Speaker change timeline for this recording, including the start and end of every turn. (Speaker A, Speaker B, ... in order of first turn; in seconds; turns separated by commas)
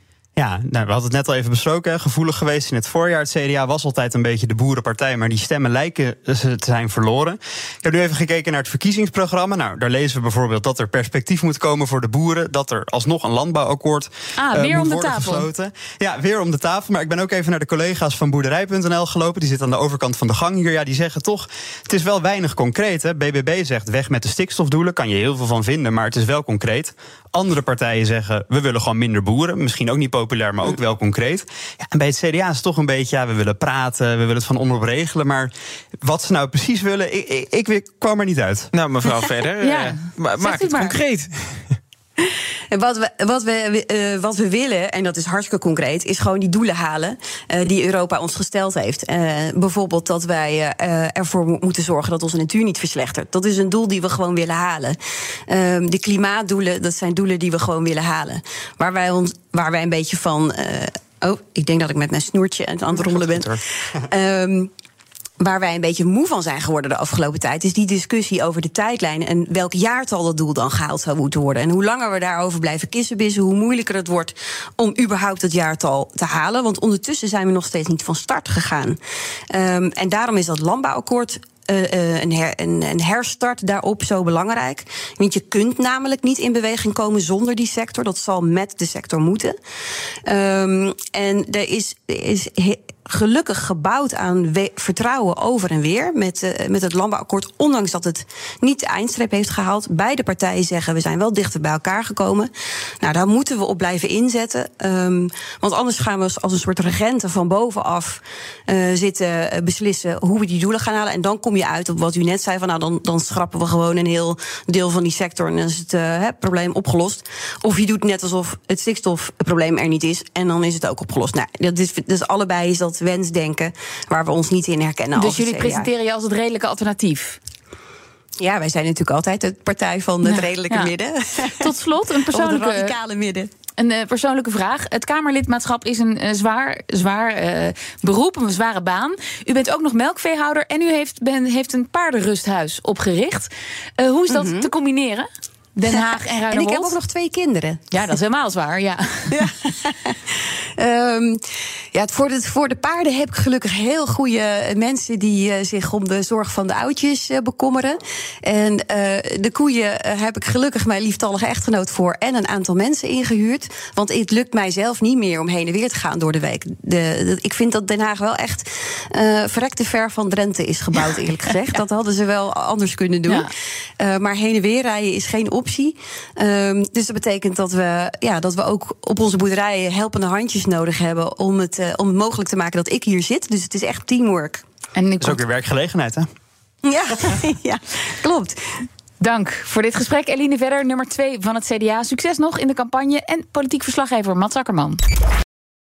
Speaker A: 0.4-35.5, Speaker B: 14.4-15.5, Speaker A: 36.0-38.7, Speaker C: 38.7-41.8, Speaker B: 39.6-41.0, Speaker D: 42.7-55.0, Speaker D: 55.5-64.7, Speaker A: 63.0-63.6, Speaker D: 65.4-79.0, Speaker D: 79.5-89.5, Speaker D: 90.3-102.5, Speaker D: 103.0-125.9, Speaker B: 125.2-127.4, Speaker D: 128.4-131.7, Speaker B: 130.2-130.9, Speaker B: 131.5-132.9, Speaker D: 132.3-133.5, Speaker B: 133.8-146.9, Speaker D: 144.3-144.7, Speaker D: 146.5-147.8, Speaker B: 147.9-149.4, Speaker D: 149.3-151.4, Speaker D: 151.9-173.5, Speaker D: 174.0-184.6, Speaker B: 184.9-185.4, Speaker A: 185.2-186.3, Speaker D: 186.8-188.7, Speaker B: 189.2-195.0